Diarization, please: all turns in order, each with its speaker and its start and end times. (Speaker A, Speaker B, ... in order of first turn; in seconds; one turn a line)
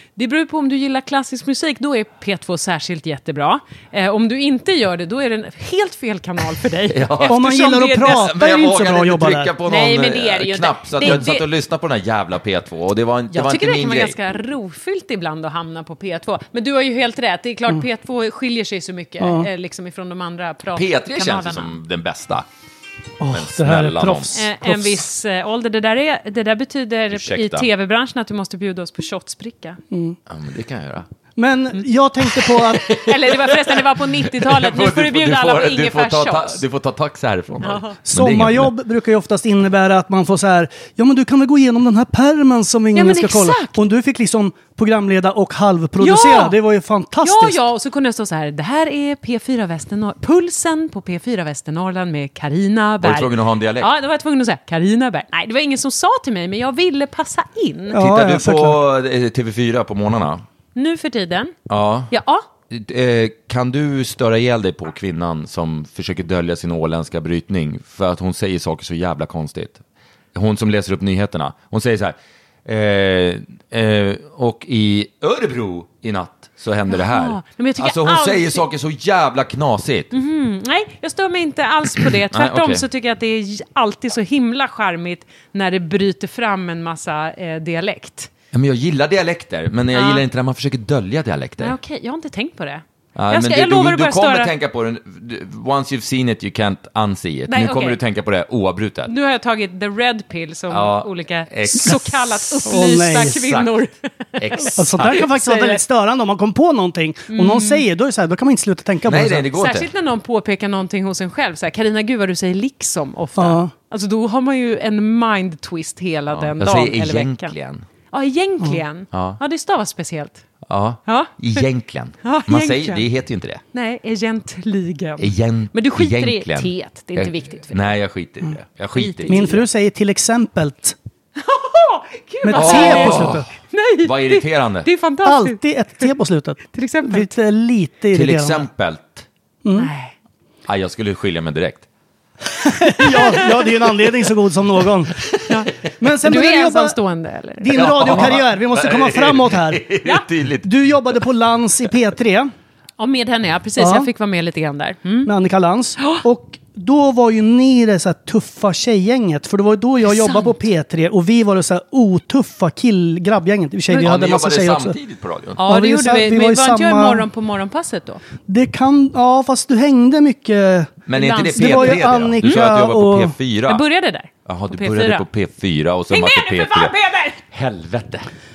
Speaker A: 0.1-8.3
Speaker B: 6.9-7.4
Speaker C: 7.3-9.5
Speaker B: 8.0-14.2
Speaker A: 9.7-11.4
Speaker A: 13.3-21.8
Speaker C: 19.2-19.5
Speaker B: 20.7-22.5
Speaker C: 23.2-24.8
Speaker B: 23.3-24.5
Speaker A: 24.3-29.8
Speaker B: 27.1-27.7
Speaker C: 29.9-30.2
Speaker B: 30.3-31.1
Speaker C: 31.4-32.8
Speaker B: 32.5-38.7
Speaker A: 32.8-36.6
Speaker A: 37.6-38.0
Speaker C: 38.0-47.6
Speaker A: 42.9-43.8
Speaker A: 46.0-46.6
Speaker A: 47.2-58.0
Speaker B: 53.0-53.9
Speaker C: 57.9-58.8
Speaker B: 57.9-60.4
Speaker A: 60.8-61.5
Speaker B: 61.7-62.1
Speaker A: 62.1-62.4
Speaker B: 62.7-69.8
Speaker B: 70.3-80.1
Speaker A: 76.9-78.7
Speaker A: 80.1-88.3
Speaker B: 82.1-82.8
Speaker B: 88.5-91.8
Speaker A: 89.9-90.2
Speaker A: 91.6-94.5
Speaker B: 93.2-99.1
Speaker A: 97.5-98.0
Speaker A: 99.1-105.8
Speaker B: 100.7-102.7
Speaker C: 102.6-103.3
Speaker B: 103.2-103.7
Speaker B: 104.4-105.3
Speaker C: 104.8-109.5
Speaker A: 107.3-107.8
Speaker B: 109.0-109.9
Speaker A: 109.5-117.5
Speaker C: 113.4-113.7
Speaker B: 116.3-117.8
Speaker A: 118.1-120.4
Speaker B: 119.1-119.4
Speaker B: 120.7-123.6
Speaker A: 121.1-121.7
Speaker A: 122.2-123.0
Speaker A: 123.7-128.0
Speaker B: 125.2-129.6
Speaker A: 128.9-129.6
Speaker C: 129.3-130.9
Speaker A: 131.3-136.1
Speaker C: 132.4-133.5
Speaker B: 132.5-133.4
Speaker B: 134.0-134.9
Speaker C: 135.2-138.7
Speaker A: 136.7-137.3
Speaker B: 138.1-139.3
Speaker A: 139.8-140.1
Speaker B: 140.7-141.8
Speaker C: 142.6-145.1
Speaker A: 143.0-143.6
Speaker B: 145.2-145.6
Speaker A: 145.5-145.7
Speaker C: 146.0-146.9
Speaker A: 146.2-148.2
Speaker C: 147.6-149.8
Speaker B: 147.7-151.2
Speaker C: 150.6-152.5
Speaker A: 153.0-155.3
Speaker C: 153.8-154.1
Speaker C: 155.2-164.9
Speaker A: 156.0-156.2
Speaker A: 160.1-160.5
Speaker B: 163.9-165.6
Speaker A: 165.6-168.2
Speaker C: 165.6-167.2
Speaker C: 168.5-170.9
Speaker B: 171.1-173.8
Speaker A: 171.1-172.1
Speaker C: 171.5-173.3
Speaker A: 173.7-175.2
Speaker B: 174.4-176.9
Speaker A: 176.1-177.4
Speaker B: 177.5-178.3